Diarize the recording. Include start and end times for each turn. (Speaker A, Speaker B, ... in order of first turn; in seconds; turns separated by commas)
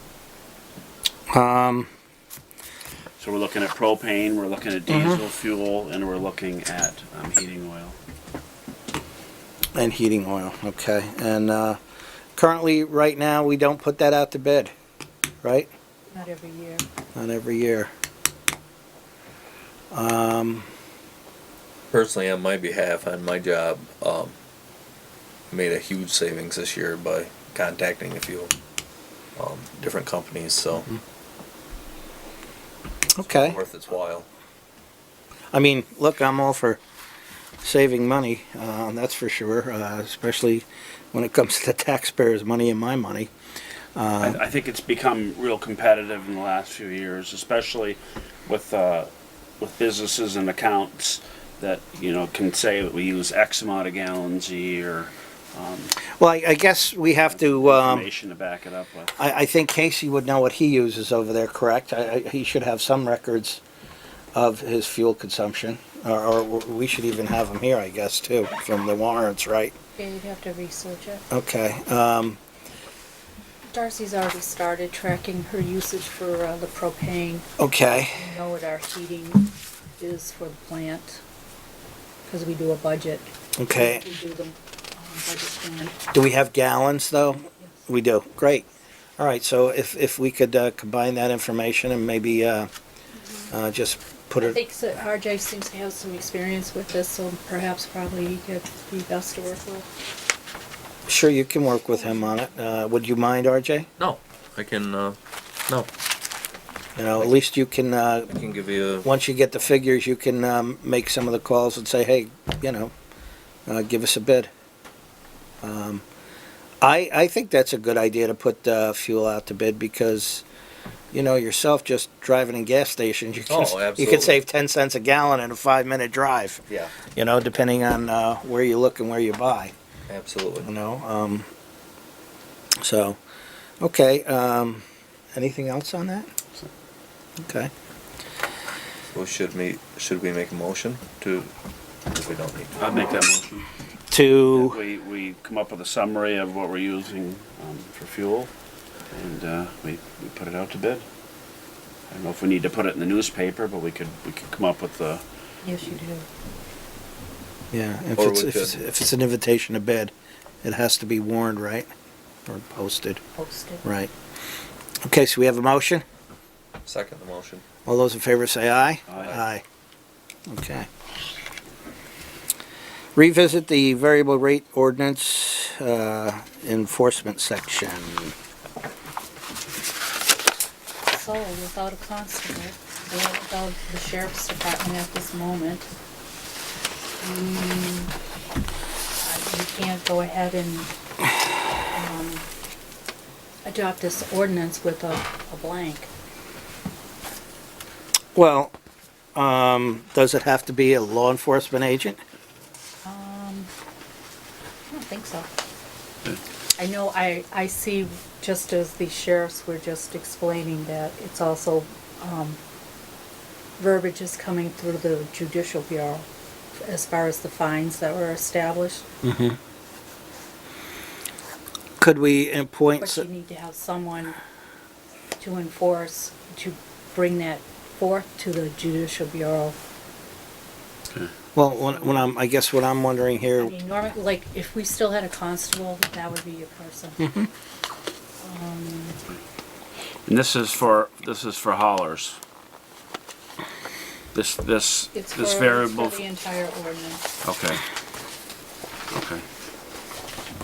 Speaker A: 1.3-1.9, Speaker B: 3.2-8.0, Speaker A: 4.9-5.2, Speaker A: 9.8-11.8, Speaker A: 12.4-14.7, Speaker A: 15.4-15.7, Speaker C: 16.1-16.9, Speaker A: 17.1-17.9, Speaker A: 19.9-20.7, Speaker D: 21.9-24.4, Speaker D: 25.5-28.5, Speaker D: 29.4-30.9, Speaker A: 33.2-33.6, Speaker D: 33.2-34.3, Speaker A: 35.5-36.8, Speaker A: 37.6-43.3, Speaker A: 44.0-44.4, Speaker B: 44.2-56.0, Speaker A: 56.2-58.1, Speaker B: 57.3-59.2, Speaker A: 59.2-63.6, Speaker A: 64.3-69.7, Speaker C: 70.0-71.2, Speaker A: 71.3-72.4, Speaker C: 73.7-77.5, Speaker A: 77.6-78.3, Speaker C: 78.1-81.2, Speaker C: 82.2-86.0, Speaker A: 83.6-84.0, Speaker A: 86.1-92.7, Speaker C: 93.2-93.5, Speaker A: 93.5-94.6, Speaker C: 94.4-99.9, Speaker A: 101.1-103.9, Speaker D: 104.0-105.2, Speaker A: 107.0-108.3, Speaker D: 108.3-109.1, Speaker A: 109.0-112.9, Speaker A: 113.7-114.5, Speaker A: 115.6-116.0, Speaker A: 116.8-120.5, Speaker A: 121.1-129.7, Speaker D: 123.5-124.4, Speaker D: 126.7-127.0, Speaker D: 130.1-130.7, Speaker A: 130.6-131.5, Speaker A: 132.8-133.2, Speaker A: 133.8-136.3, Speaker A: 137.4-137.7, Speaker D: 139.1-141.5, Speaker D: 142.1-142.8, Speaker B: 142.8-143.7, Speaker A: 144.1-144.8, Speaker B: 144.5-148.5, Speaker B: 149.1-151.1, Speaker B: 152.1-155.2, Speaker C: 155.6-156.3, Speaker A: 157.7-160.1, Speaker D: 158.2-158.8, Speaker A: 160.6-161.9, Speaker A: 162.5-163.2, Speaker C: 163.4-163.8, Speaker A: 163.8-164.1, Speaker A: 165.0-166.0, Speaker D: 166.8-167.6, Speaker A: 167.9-169.6, Speaker D: 169.1-169.4, Speaker A: 170.5-170.9, Speaker A: 173.2-178.3, Speaker C: 181.1-185.9, Speaker C: 187.2-188.1, Speaker C: 189.2-190.9, Speaker C: 191.9-192.5, Speaker C: 193.7-196.1, Speaker A: 198.3-198.7, Speaker A: 199.3-202.2, Speaker C: 203.0-203.7, Speaker C: 204.9-205.5, Speaker C: 206.8-212.6, Speaker C: 213.8-219.1, Speaker A: 219.2-219.6, Speaker A: 222.0-223.3, Speaker C: 223.0-224.4, Speaker C: 225.4-229.8, Speaker A: 231.6-233.7, Speaker C: 231.9-232.2, Speaker C: 233.6-237.2, Speaker A: 237.2-237.5, Speaker C: 238.4-239.2, Speaker B: 240.3-242.4, Speaker B: 244.3-246.2, Speaker C: 245.1-247.3, Speaker B: 247.4-247.8, Speaker B: 249.1-249.4